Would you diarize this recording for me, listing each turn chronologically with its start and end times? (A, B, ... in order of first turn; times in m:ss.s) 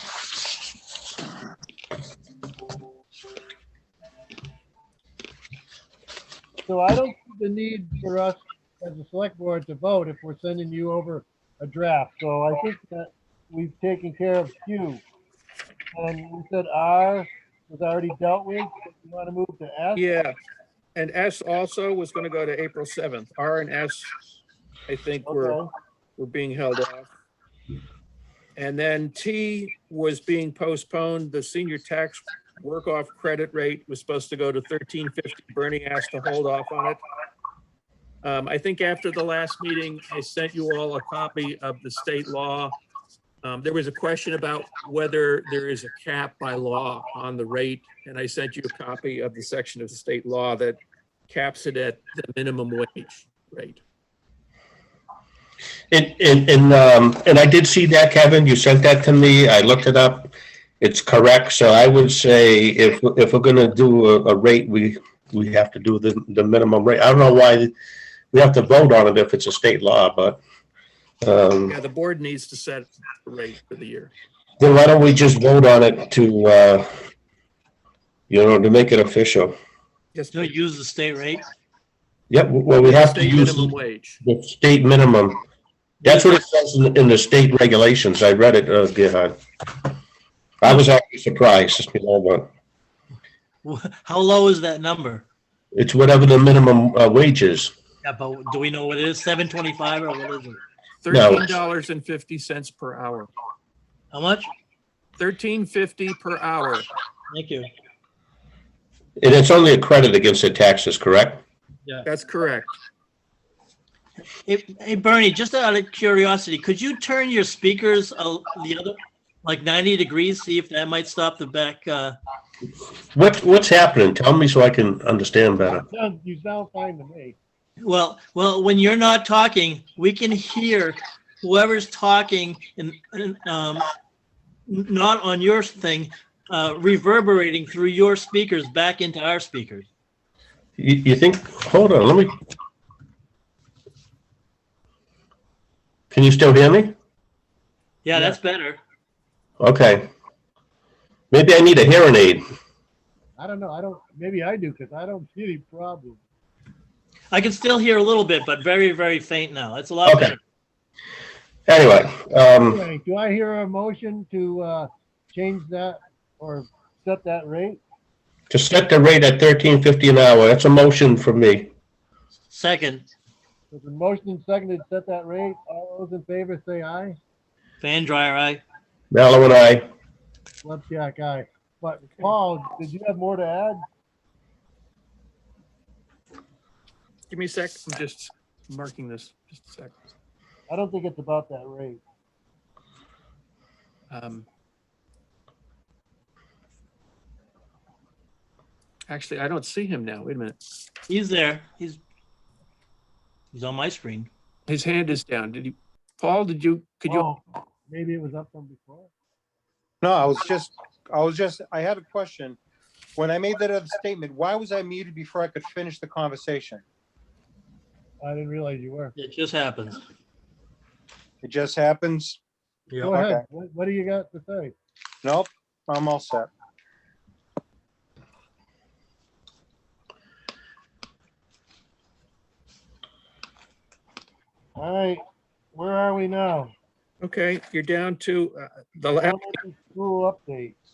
0:06.6-0:15.0 A
0:15.9-0:20.2 A
0:20.0-0:20.4 B
0:21.0-0:24.1 B
0:24.9-0:25.7 B
0:25.2-0:25.7 A
0:26.2-0:27.1 B
0:28.6-0:37.0 B
0:38.2-0:42.7 B
0:43.4-0:53.8 B
0:55.9-1:07.7 C
1:08.3-1:10.4 C
1:11.2-1:11.8 C
1:11.6-1:14.1 B
1:14.6-1:16.9 C
1:18.3-1:19.6 C
1:20.1-1:20.5 B
1:20.3-1:21.4 D
1:22.3-1:25.4 C
1:22.8-1:24.2 B
1:26.0-1:26.4 D
1:26.0-1:29.4 C
1:30.6-1:32.5 C
1:33.6-1:35.3 D
1:35.7-1:37.7 C
1:38.0-1:40.6 D
1:41.0-1:43.3 B
1:41.1-1:41.6 C
1:44.1-1:44.5 D
1:45.2-1:46.9 B
1:47.3-1:47.7 D
1:49.2-1:51.4 C
1:52.0-1:52.7 B
1:54.5-2:02.2 D
2:03.1-2:05.8 C
2:05.9-2:07.4 A
2:07.8-2:13.9 D
2:14.7-2:19.9 D
2:20.8-2:22.4 C
2:26.1-2:27.0 C
2:28.0-2:28.8 D
2:29.6-2:30.1 C
2:31.3-2:32.5 C
2:33.4-2:36.2 A
2:37.3-2:40.4 D
2:40.0-2:40.4 C
2:41.7-2:42.8 C
2:42.6-2:47.8 A
2:48.5-2:51.7 C
2:52.5-2:53.1 D
2:53.7-2:57.2 A
2:57.8-2:58.6 D
2:59.1-2:59.9 C
3:00.6-3:03.8 A
3:02.1-3:02.3 B
3:07.3-3:10.0 B
3:10.7-3:12.0 A
3:14.1-3:14.5 B
3:19.1-3:20.6 B
3:21.1-3:22.0 D
3:23.5-3:24.3 D
3:24.7-3:27.3 B
3:27.0-3:29.1 A
3:30.0-3:32.6 E
3:33.2-3:36.8 E
3:38.2-3:39.2 A
3:39.2-3:40.0 D
3:41.4-3:42.4 E
3:43.0-3:44.7 A
3:43.0-3:43.4 E
3:45.2-3:46.5 E
3:54.8-3:56.7 A
3:57.2-3:59.6 B
3:59.2-4:00.8 A